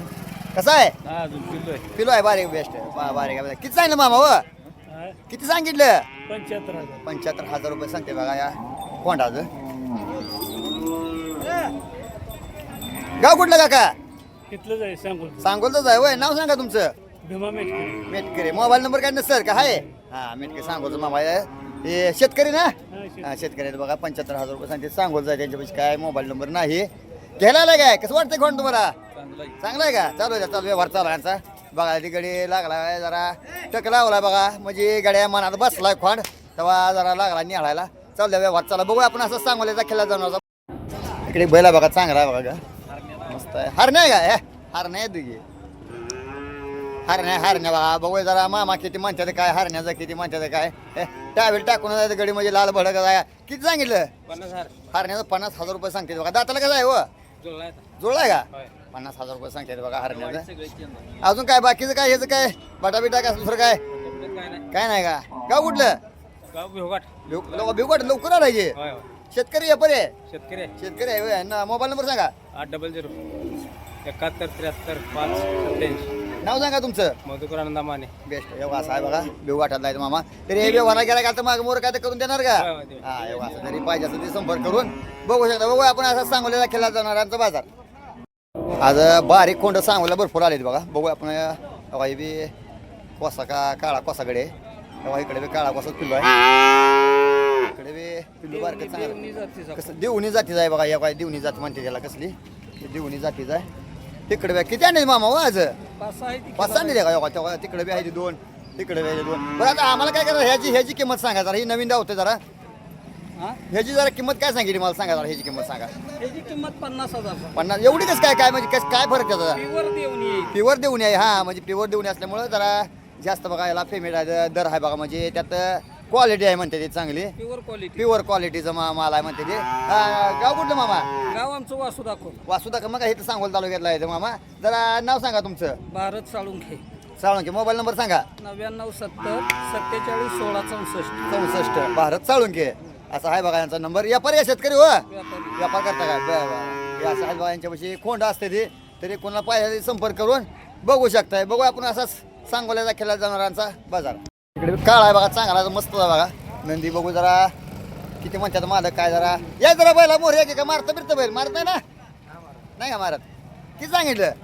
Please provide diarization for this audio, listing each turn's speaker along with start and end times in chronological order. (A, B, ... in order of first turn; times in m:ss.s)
0:00.6-0:01.0 A
0:01.0-0:01.8 B
0:02.0-0:04.5 A
0:04.9-0:05.2 C
0:05.3-0:06.1 A
0:06.3-0:07.0 C
0:07.0-0:09.5 A
0:13.2-0:13.9 A
0:14.5-0:15.5 C
0:15.4-0:16.9 A
0:17.2-0:18.0 C
0:18.1-0:29.0 A
0:19.6-0:19.9 C
0:22.9-0:23.3 C
0:29.1-0:29.6 B
0:29.6-0:40.4 A
0:41.2-0:42.6 A
0:43.2-0:45.4 A
0:47.1-0:54.1 A
0:54.3-0:54.7 B
0:54.9-0:57.1 A
0:57.4-0:57.8 B
0:58.0-1:00.5 A
1:00.1-1:01.0 B
1:01.2-1:03.8 A
1:04.0-1:04.6 B
1:04.7-1:06.0 A
1:06.5-1:07.1 B
1:07.3-1:08.8 A
1:08.8-1:09.0 B
1:09.3-1:10.1 A
1:10.3-1:10.7 B
1:10.8-1:12.3 A
1:12.6-1:13.1 B
1:14.0-1:16.1 B
1:16.4-1:17.1 A
1:17.2-1:18.1 B
1:18.2-1:27.7 A
1:20.6-1:20.8 B
1:22.6-1:23.0 B
1:28.8-1:32.5 A
1:33.2-1:34.5 A
1:35.0-1:36.3 A
1:37.6-1:39.2 A
1:38.5-1:39.9 B
1:39.8-1:43.7 A
1:44.3-1:45.8 A
1:46.0-1:47.0 B
1:46.6-1:52.4 A
1:53.7-1:55.9 A
1:56.2-1:57.6 B
1:57.6-1:59.6 A
1:59.6-2:00.5 B
2:00.5-2:07.3 A
2:07.4-2:08.1 B
2:08.0-2:11.1 A
2:11.3-2:12.4 B
2:12.5-2:15.8 A
2:15.9-2:16.8 B
2:17.2-2:18.2 A
2:18.4-2:21.2 B
2:21.3-2:25.1 A
2:25.1-2:25.6 B
2:25.6-2:37.5 A
2:38.2-2:41.8 A
2:42.3-2:42.6 B
2:42.8-2:43.2 A
2:43.8-2:44.4 A